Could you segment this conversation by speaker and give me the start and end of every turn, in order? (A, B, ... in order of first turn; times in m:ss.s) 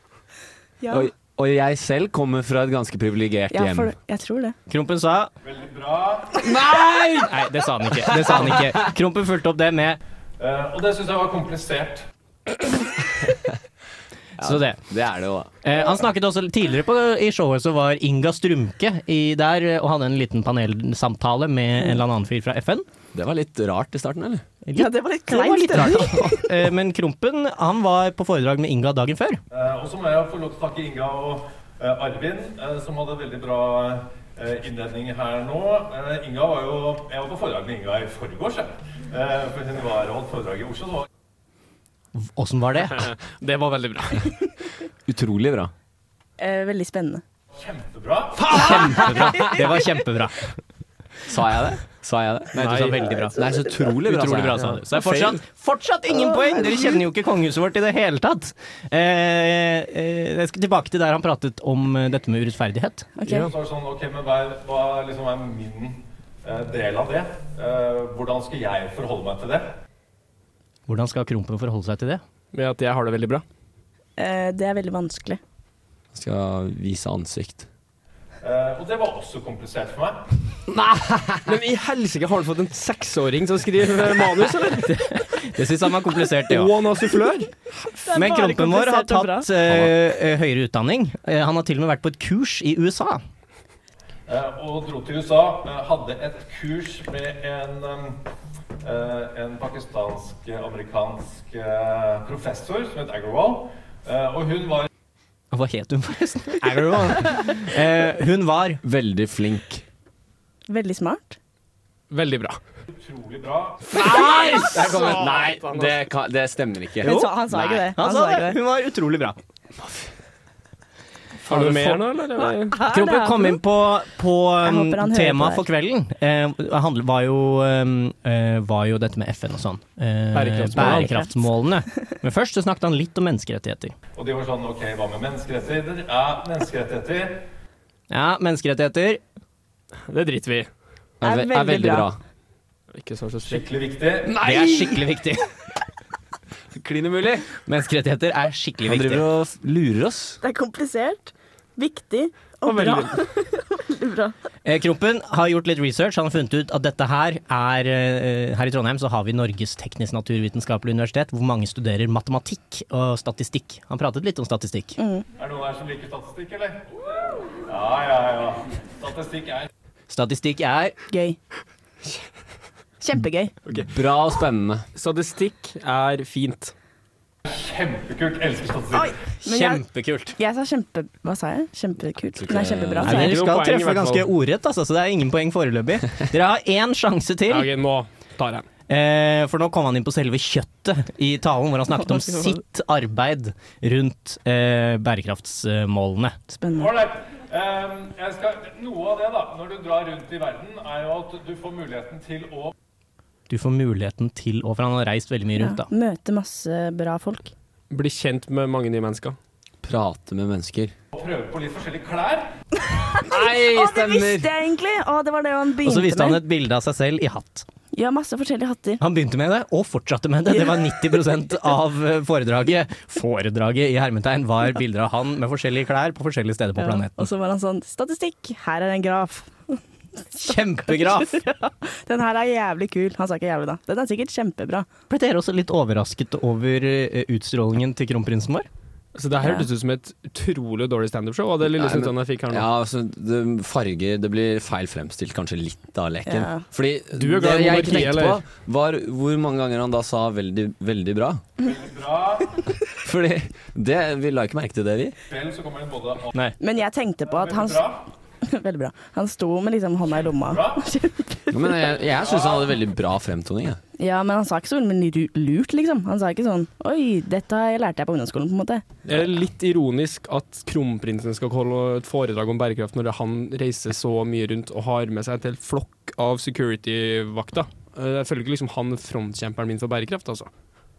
0:00.8-0:01.1 A
0:00.9-0:03.9 B
0:03.5-0:04.6 A
0:04.7-0:05.3 C
0:05.4-0:06.3 D
0:06.4-0:07.4 B
0:07.3-0:10.0 C
0:10.4-0:12.0 D
0:14.4-0:15.5 B
0:14.4-0:14.8 C
0:15.6-0:22.9 C
0:23.1-0:24.4 B
0:24.7-0:29.4 C
0:24.7-0:26.4 A
0:29.5-0:41.1 D
0:42.1-0:43.1 C
0:43.0-0:44.4 E
0:45.1-0:45.7 B
0:46.4-0:47.2 A
0:47.5-0:48.4 D
0:48.5-0:50.5 C
0:48.5-0:49.5 B
0:51.3-0:55.4 B
0:52.5-0:53.4 C
0:52.6-0:53.0 E
0:54.0-1:03.1 C
0:56.2-0:56.9 A
1:03.2-1:03.5 A
1:03.3-1:09.7 D
1:10.9-1:12.2 C
1:12.5-1:13.4 E
1:14.2-1:15.4 A
1:16.1-1:17.7 B
1:18.4-1:20.2 D
1:20.7-1:21.4 B
1:21.4-1:25.0 E
1:24.6-1:26.7 C
1:26.5-1:27.5 E
1:27.9-1:29.5 A
1:28.1-1:33.2 C
1:34.3-1:38.2 D
1:38.8-1:44.9 D
1:45.5-1:48.8 C
1:48.8-1:49.8 B
1:50.7-1:51.4 A
1:52.1-1:52.6 E
1:52.9-1:53.8 D
1:53.9-1:55.9 E
1:54.0-1:57.8 B
1:57.0-1:58.6 A
1:57.0-1:59.4 C
2:01.4-2:02.8 E
2:01.5-2:01.9 C
2:02.7-2:03.6 A
2:02.7-2:13.9 C
2:04.6-2:05.6 A
2:10.3-2:11.3 E
2:10.9-2:11.2 A
2:14.1-2:17.4 D
2:18.1-2:19.2 C
2:20.1-2:20.7 E
2:21.2-2:22.2 B
2:21.2-2:22.1 A
2:22.9-2:23.7 E
2:23.4-2:24.3 D
2:24.2-2:25.0 B
2:24.4-2:25.4 C
2:26.8-2:27.5 B
2:27.6-2:29.2 C
2:28.8-2:30.4 B
2:30.4-2:34.3 A
2:32.6-2:33.1 E
2:34.6-2:45.0 C
2:45.0-2:45.2 A
2:45.4-2:46.8 D
2:47.6-2:49.7 D
2:50.1-2:51.0 C
2:51.1-2:51.4 A
2:53.0-2:53.5 A
2:53.7-2:53.9 E
2:53.7-2:54.8 B
2:54.9-2:56.7 E
2:57.4-2:59.1 D
2:58.9-2:59.8 A
2:59.4-3:00.4 C
3:00.4-3:03.4 A
3:02.4-3:03.2 B
3:03.0-3:07.7 C
3:03.0-3:04.3 E
3:07.5-3:08.6 E
3:08.9-3:16.4 C
3:12.2-3:12.5 A
3:16.6-3:16.9 A
3:16.7-3:22.7 D
3:23.5-3:25.9 C
3:25.6-3:27.5 A
3:27.9-3:29.4 E
3:29.8-3:30.9 B
3:31.1-3:32.5 D
3:33.2-3:34.5 B
3:33.3-3:36.4 A
3:35.8-3:37.7 C
3:37.9-3:39.0 A
3:39.0-3:47.3 C
3:40.5-3:41.0 A
3:46.8-3:49.8 A
3:50.4-3:51.4 C
3:50.4-3:54.9 A
3:55.1-3:58.7 C
3:59.1-4:02.6 E
3:59.4-3:59.7 A
4:01.7-4:11.4 B
4:06.3-4:06.6 A
4:07.1-4:08.4 E
4:11.6-4:12.6 D
4:13.0-4:15.1 B
4:15.3-4:16.3 D
4:16.6-4:17.8 A
4:17.2-4:18.0 D
4:18.4-4:22.0 A
4:20.4-4:20.8 D
4:21.5-4:23.8 B
4:22.2-4:22.7 D
4:24.0-4:28.8 A
4:29.0-4:40.5 E